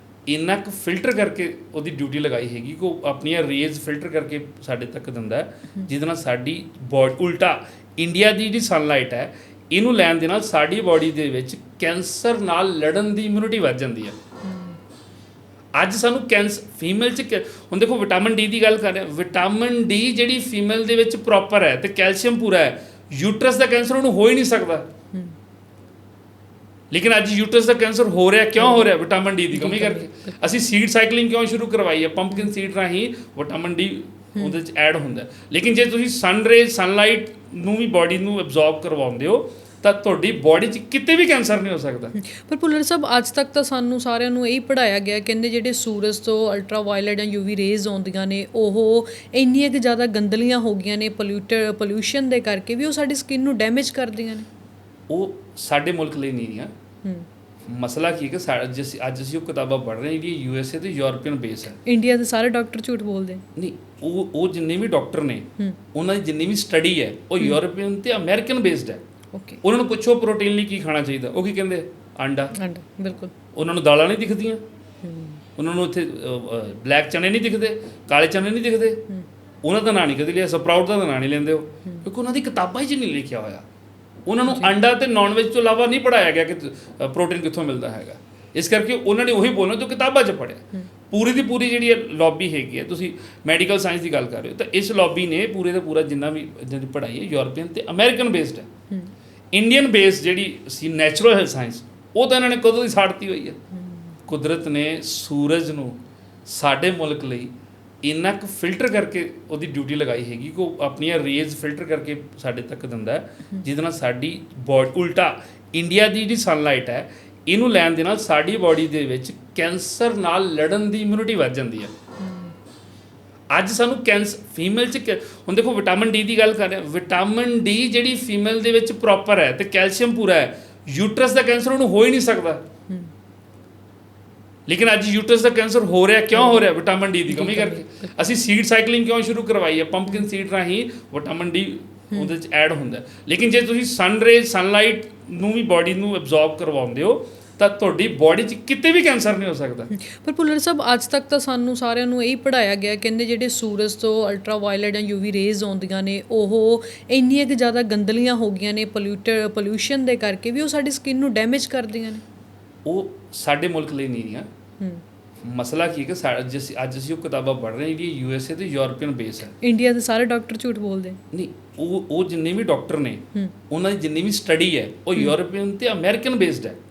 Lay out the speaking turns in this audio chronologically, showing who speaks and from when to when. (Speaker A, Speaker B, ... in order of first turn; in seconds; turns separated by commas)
Speaker A: 0.3-14.2, Speaker B: 14.4-14.8, Speaker A: 15.8-24.8, Speaker A: 26.9-42.1, Speaker B: 28.6-28.9, Speaker B: 29.5-30.4, Speaker B: 42.1-54.5, Speaker A: 55.1-56.7, Speaker A: 57.7-61.8, Speaker B: 61.8-63.4, Speaker A: 63.5-69.0, Speaker B: 69.3-69.6, Speaker A: 69.6-72.5, Speaker B: 72.5-73.3, Speaker A: 73.5-74.6, Speaker B: 75.0-75.4, Speaker A: 75.6-79.0, Speaker A: 79.6-83.6, Speaker A: 84.3-98.7, Speaker B: 84.5-84.7, Speaker A: 99.5-103.6, Speaker B: 103.7-104.1, Speaker A: 104.3-107.5, Speaker A: 108.0-121.9, Speaker B: 122.2-122.5, Speaker A: 123.5-132.6, Speaker A: 134.7-149.9, Speaker B: 136.3-136.7, Speaker B: 137.3-138.2, Speaker B: 149.9-162.2, Speaker A: 162.8-164.5, Speaker A: 165.4-169.6, Speaker B: 169.6-171.2, Speaker A: 171.3-176.8